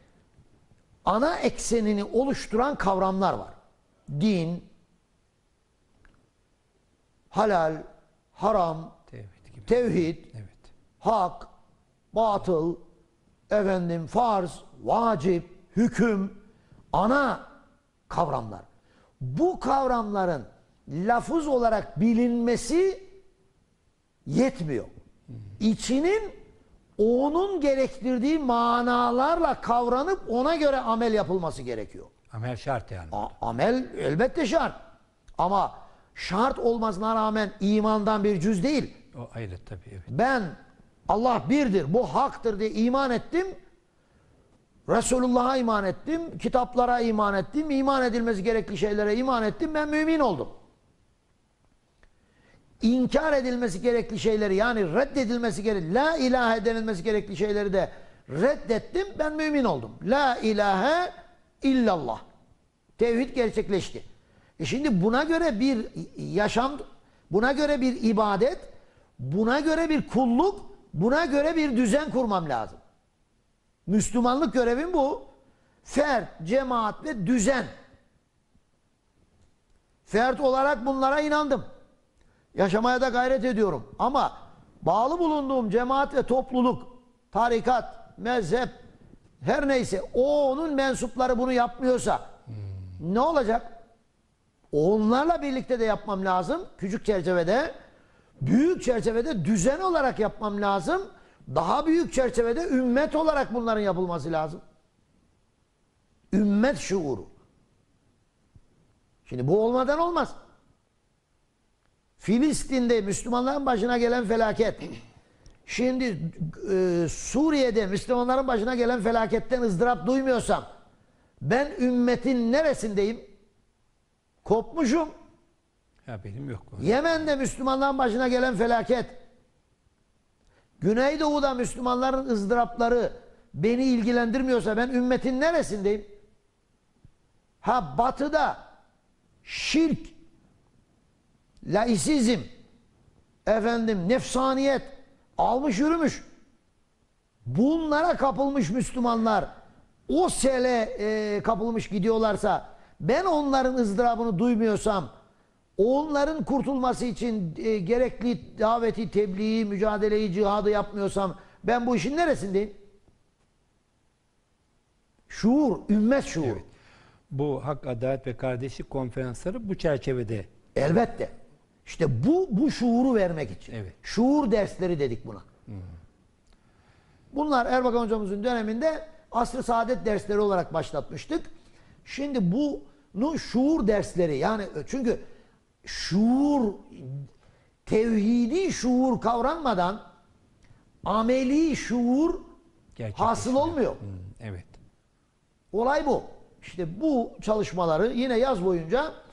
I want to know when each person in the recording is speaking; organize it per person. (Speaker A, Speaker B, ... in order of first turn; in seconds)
Speaker A: 1.0-3.5, 4.1-4.7, 7.3-8.9, 9.6-10.3, 11.0-11.5, 12.1-12.8, 13.5-16.4, 16.9-17.4, 18.1-18.6, 19.2-23.1, 24.2-24.9, 25.6-26.3, 27.0-32.1, 33.1-34.7, 35.4-38.9, 40.1-40.5, 41.1-43.5, 44.9-50.5, 52.8-62.2, 63.0-64.0, 64.6-68.7, 69.2-72.8, 73.9-75.3, 75.8-77.7, 80.0-81.6, 82.5-88.7, 89.4-92.2, 93.0-93.7, 94.7-97.7, 98.4-104.6, 106.3-107.3, 109.2-110.3, 112.2-114.9, 115.7-120.6, 121.4-123.2, 124.4-125.1, 126.8-129.1, 130.8-136.0, 137.6-138.6, 139.4-140.2, 141.6-142.4, 143.4-146.2, 147.4-149.5, 150.1-155.1, 155.8-162.7, 165.3-166.6, 170.7-171.3, 171.8-175.4, 177.3-181.5, 182.0-185.2, 185.8-187.2, 187.8-190.0, 191.0-192.4, 193.1-194.0, 195.7-199.1
Speaker B: 9.1-10.7, 32.3-33.2, 39.1-40.0, 126.0-127.0, 167.3-170.5, 192.9-194.8